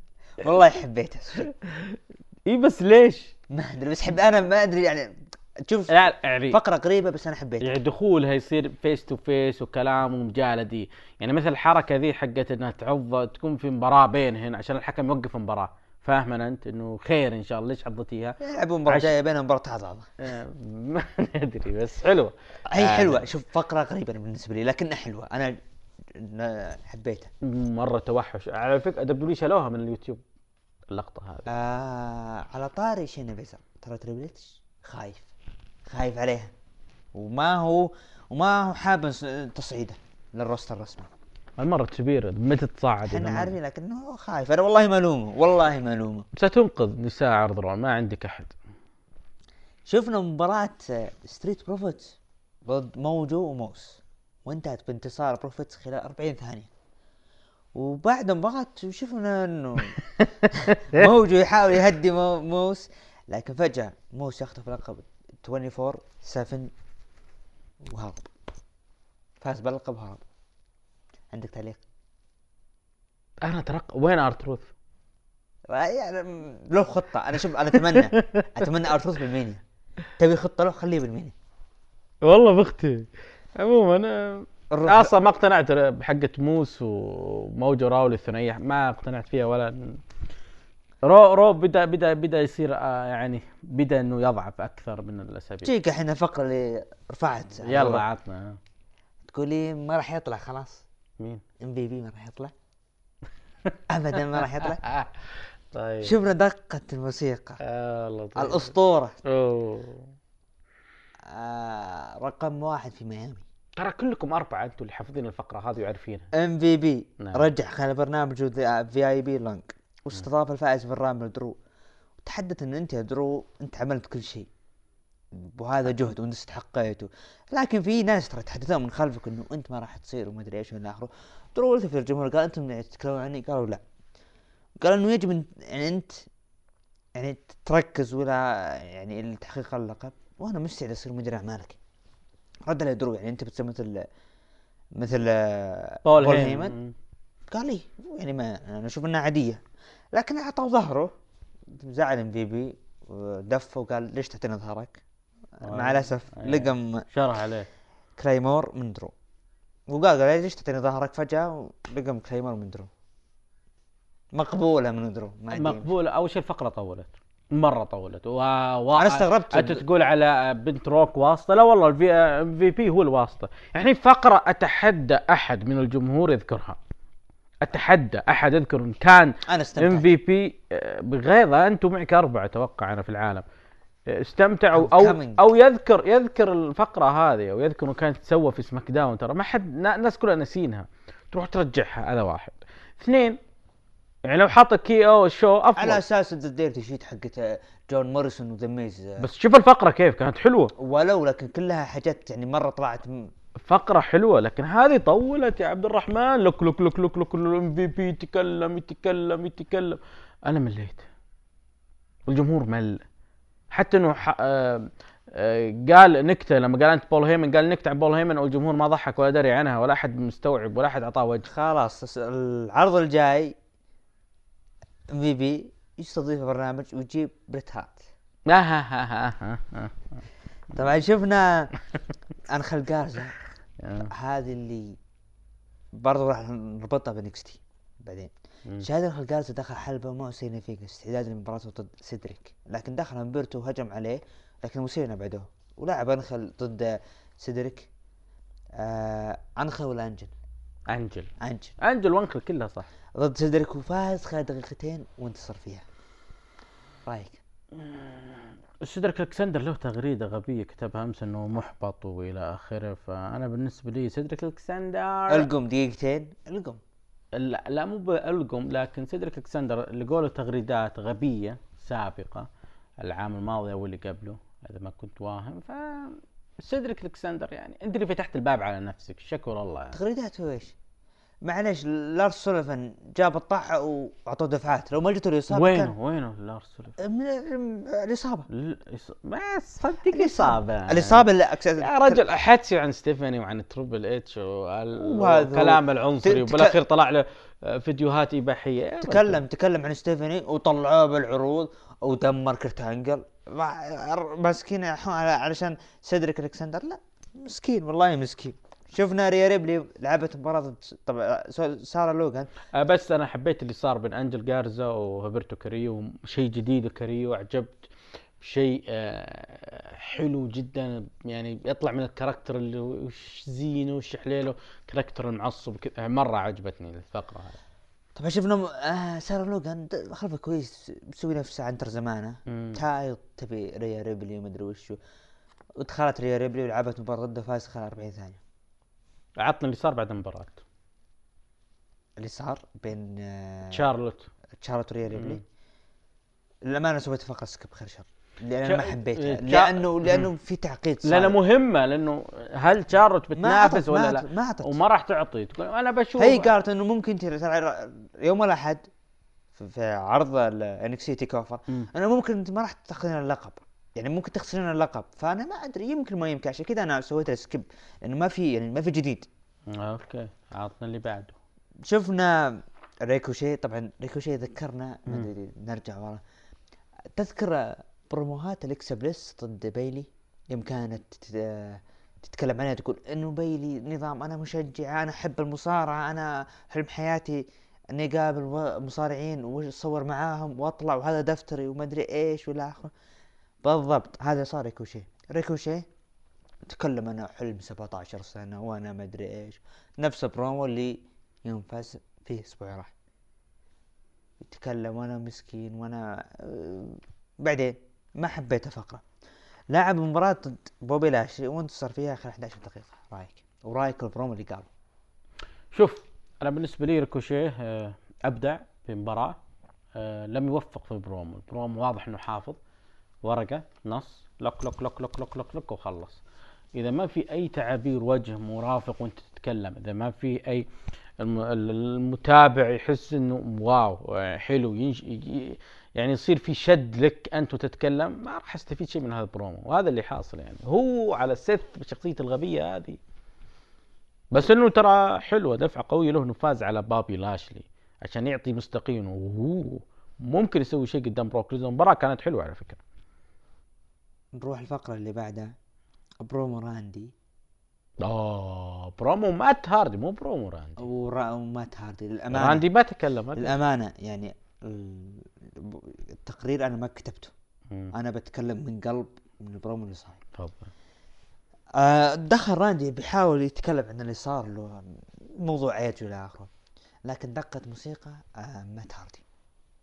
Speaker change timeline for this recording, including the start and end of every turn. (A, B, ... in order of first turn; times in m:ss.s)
0:00.4-0:01.5 A
0:01.6-0:03.3 B
0:03.5-0:06.0 A
0:05.9-0:06.6 B
0:06.5-0:07.7 A
0:07.6-0:19.1 B
0:18.4-0:20.1 A
0:20.2-0:23.2 B
0:22.7-0:25.6 A
0:26.1-0:27.3 A
0:27.4-0:30.2 B
0:30.9-0:31.5 B
0:31.5-0:35.3 A
0:35.9-0:36.5 A
0:37.1-0:41.1 A
0:41.6-0:43.5 B
0:43.0-0:46.2 A
0:46.4-0:48.6 B
0:49.9-0:56.7 A
0:57.7-1:00.0 A
1:00.2-1:01.1 B
1:00.6-1:06.7 A
1:07.8-1:08.3 A
1:09.4-1:10.2 A
1:11.3-1:11.8 A
1:13.4-1:14.7 B
1:15.7-1:19.6 A
1:17.9-1:18.6 B
1:20.2-1:21.3 A
1:22.2-1:30.0 B
1:24.7-1:25.1 A
1:31.0-1:35.7 B
1:35.6-1:38.0 A
1:37.6-1:38.6 B
1:39.3-1:40.8 A
1:41.6-1:42.5 A
1:43.9-1:44.8 A
1:44.6-1:45.1 B
1:45.7-1:46.1 B
1:46.0-1:47.6 A
1:47.6-1:48.7 B
1:48.4-1:49.2 A
1:49.2-1:50.1 B
1:51.3-1:53.4 A
1:53.8-1:56.3 B
1:56.3-2:01.6 A
1:57.2-1:57.5 B
2:02.2-2:04.5 A
2:05.3-2:13.8 A
2:14.8-2:16.2 A
2:17.2-2:21.8 A
2:22.6-2:24.1 A
2:24.9-2:26.8 A
2:26.0-2:26.9 B
2:27.5-2:29.6 A
2:30.1-2:31.1 A
2:31.7-2:35.0 A
2:35.6-2:37.0 A
2:35.6-2:37.7 B
2:38.2-2:39.1 A
2:39.9-2:42.9 A
2:44.3-2:45.9 A
2:45.5-2:56.8 B
2:48.9-2:49.8 A
2:57.6-3:03.4 B
2:59.5-3:00.1 A
3:04.1-3:13.4 B
3:04.7-3:05.4 A
3:14.2-3:16.0 B
3:15.8-3:19.3 A
3:19.2-3:20.7 B
3:20.8-3:23.3 A
3:23.6-3:31.0 B
3:32.3-3:33.0 B
3:33.7-3:41.5 B
3:41.4-3:43.5 A
3:45.1-3:48.0 A
3:48.5-3:50.1 B
3:50.7-3:51.7 A
3:52.5-3:53.3 A
3:53.8-3:54.1 B
3:54.1-3:55.0 A
3:56.0-4:07.9 A
4:08.7-4:10.3 A
4:10.9-4:12.9 B
4:11.4-4:11.7 A
4:13.2-4:15.8 A
4:17.0-4:17.4 A
4:17.7-4:25.5 B
4:25.3-4:26.8 A
4:27.4-4:32.5 B
4:33.0-4:40.0 B
4:39.9-4:40.7 A
4:41.4-4:45.9 A
4:45.5-4:47.0 B
4:47.0-4:48.5 A
4:48.5-4:51.2 B
4:50.1-4:52.2 A
4:51.8-4:59.4 B
4:55.0-4:56.8 A
4:59.0-5:12.5 A
5:12.7-5:17.9 B
5:18.4-5:27.6 B
5:28.2-5:35.0 A
5:32.5-5:32.8 B
5:35.8-5:38.4 A
5:39.4-5:40.6 B
5:42.2-5:43.8 A
5:43.7-5:44.3 B
5:44.6-5:45.4 A
5:45.1-5:45.4 B
5:46.7-5:51.4 A
5:48.6-5:50.3 B
5:51.0-5:56.5 B
5:53.4-5:54.7 A
5:56.2-5:58.9 A
5:59.5-6:09.3 A
6:09.7-6:11.4 B
6:11.8-6:16.2 A
6:17.1-6:32.9 A
6:33.6-6:35.8 A
6:36.6-6:42.9 A
6:44.4-6:49.0 A
6:49.7-6:54.7 A
6:55.7-6:59.4 B
7:00.0-7:02.6 B
7:03.2-7:06.2 B
7:06.7-7:10.7 B
7:11.2-7:23.0 B
7:24.3-7:32.8 B
7:34.4-7:35.5 A
7:36.2-7:37.1 A
7:38.0-7:40.8 B
7:40.8-7:42.6 A
7:42.3-7:43.5 B
7:43.4-7:47.3 A
7:47.9-7:50.2 A
7:50.4-7:50.7 B
7:51.8-7:56.5 A
7:57.0-7:59.2 A